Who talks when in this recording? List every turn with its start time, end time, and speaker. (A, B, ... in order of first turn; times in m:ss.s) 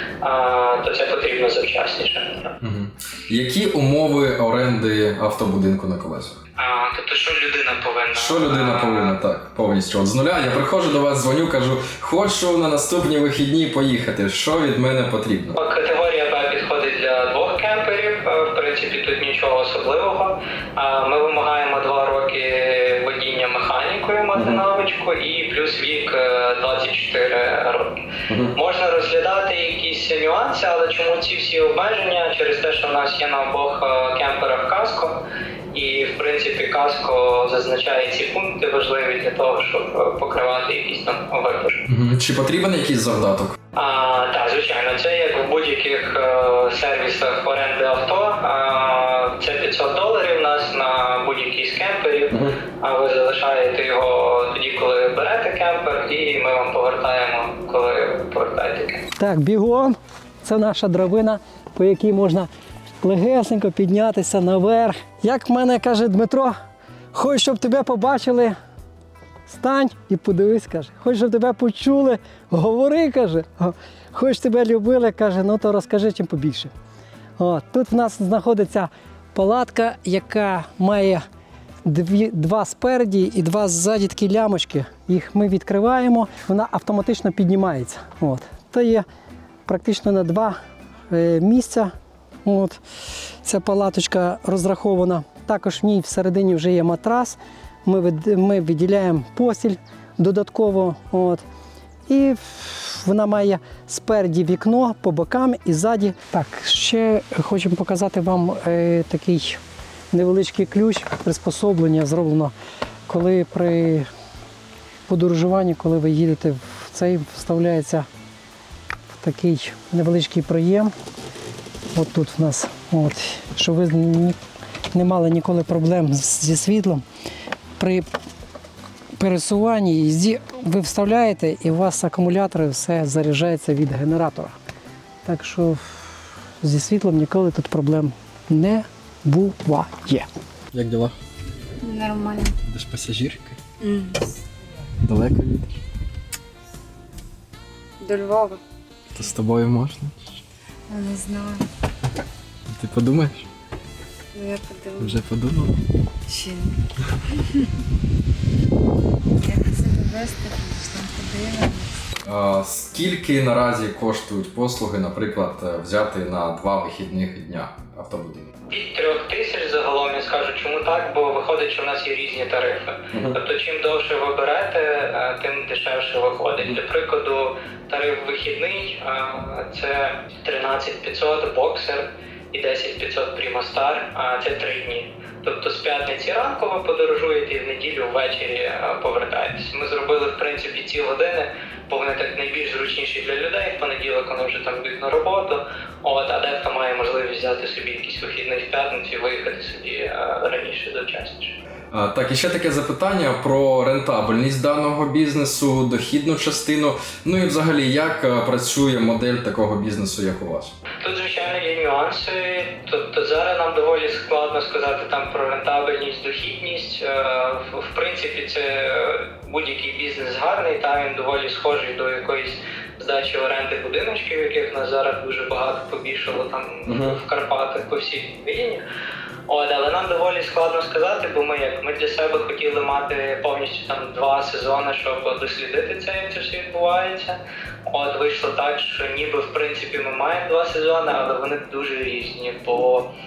0:00.2-0:02.6 A
0:02.6-0:06.4 B
0:06.6-0:09.2 A
0:08.1-0:15.6 B
0:15.6-0:35.2 A
0:35.7-0:41.8 A
0:41.9-0:43.6 B
0:43.8-0:59.0 A
0:59.2-1:02.5 C
1:03.0-1:06.6 C
1:07.1-1:08.6 C
1:09.5-1:16.7 C
1:17.4-1:21.2 C
1:21.8-1:29.0 C
1:29.7-1:30.6 C
1:31.1-1:31.9 C
1:32.4-1:32.8 C
1:33.4-1:41.4 C
1:42.1-1:49.6 C
1:50.1-1:52.5 C
1:53.1-1:54.1 C
1:55.1-1:58.1 C
1:59.2-2:00.9 C
2:01.9-2:04.4 C
2:04.9-2:07.0 C
2:07.8-2:08.1 C
2:09.2-2:14.6 C
2:15.2-2:20.3 C
2:20.7-2:21.1 B
2:21.8-2:22.6 D
2:22.6-2:23.6 B
2:23.8-2:24.4 D
2:25.0-2:25.8 B
2:28.0-2:28.6 D
2:29.1-2:30.4 B
2:30.9-2:31.6 D
2:32.7-2:33.5 B
2:34.3-2:35.2 D
2:35.0-2:35.8 B
2:36.3-2:37.7 D
2:39.4-2:41.9 D
2:42.2-2:48.5 B
2:48.7-3:21.6 A
2:53.1-2:53.4 B
3:21.9-3:30.8 B
3:31.0-3:48.8 A
3:46.9-3:47.2 B
3:49.5-4:03.1 A